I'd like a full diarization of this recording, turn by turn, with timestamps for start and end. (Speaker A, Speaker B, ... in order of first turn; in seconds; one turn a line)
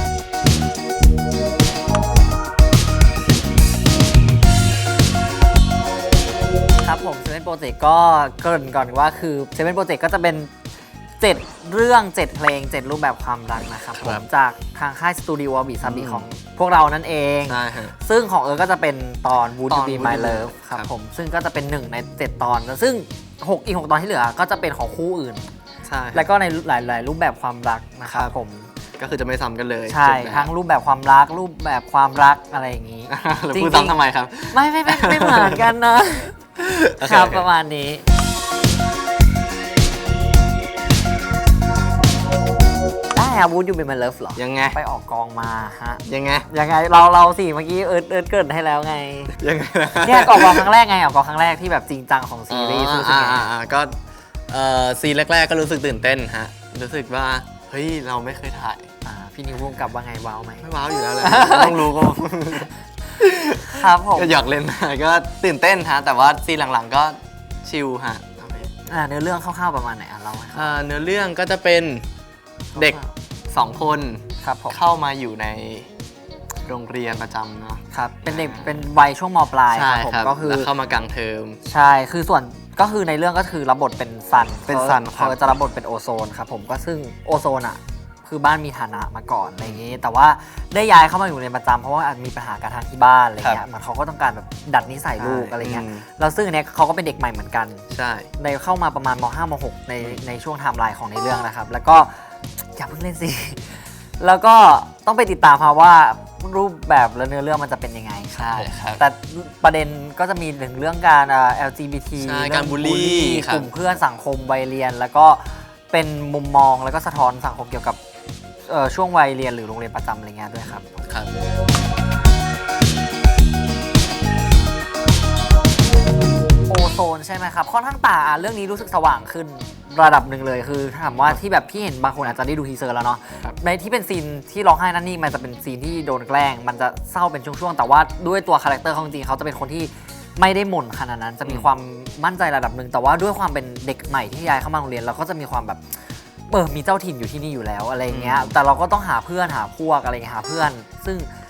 Speaker A: 6.8-10.5
Speaker A: 11.2-25.5
Speaker B: 13.9-14.2
Speaker B: 15.8-16.3
Speaker B: 17.4-17.9
Speaker B: 19.7-20.9
Speaker B: 25.8-26.3
Speaker A: 26.1-28.7
Speaker B: 28.0-28.3
Speaker B: 29.0-30.5
Speaker A: 29.9-34.0
Speaker B: 33.1-35.7
Speaker A: 34.5-38.0
Speaker B: 36.6-37.5
Speaker A: 43.1-49.4
Speaker B: 44.4-44.8
Speaker B: 46.0-46.5
Speaker B: 49.3-50.7
Speaker A: 50.0-53.5
Speaker B: 52.5-54.0
Speaker B: 54.5-58.9
Speaker A: 59.0-60.6
Speaker B: 60.6-68.7
Speaker A: 61.2-61.9
Speaker A: 63.7-64.4
Speaker A: 68.9-70.8
Speaker B: 70.5-72.0
Speaker A: 72.7-73.1
Speaker B: 72.8-75.9
Speaker A: 74.4-74.8
Speaker B: 76.7-78.9
Speaker A: 77.9-80.7
Speaker B: 79.7-81.6
Speaker A: 81.6-97.8
Speaker B: 84.7-85.4
Speaker B: 95.2-96.0
Speaker B: 97.9-98.3
Speaker A: 98.4-118.0
Speaker B: 108.3-109.0
Speaker B: 112.2-113.7
Speaker A: 118.6-121.0
Speaker B: 121.0-121.3
Speaker A: 126.7-145.9
Speaker A: 146.5-151.3
Speaker B: 148.1-148.5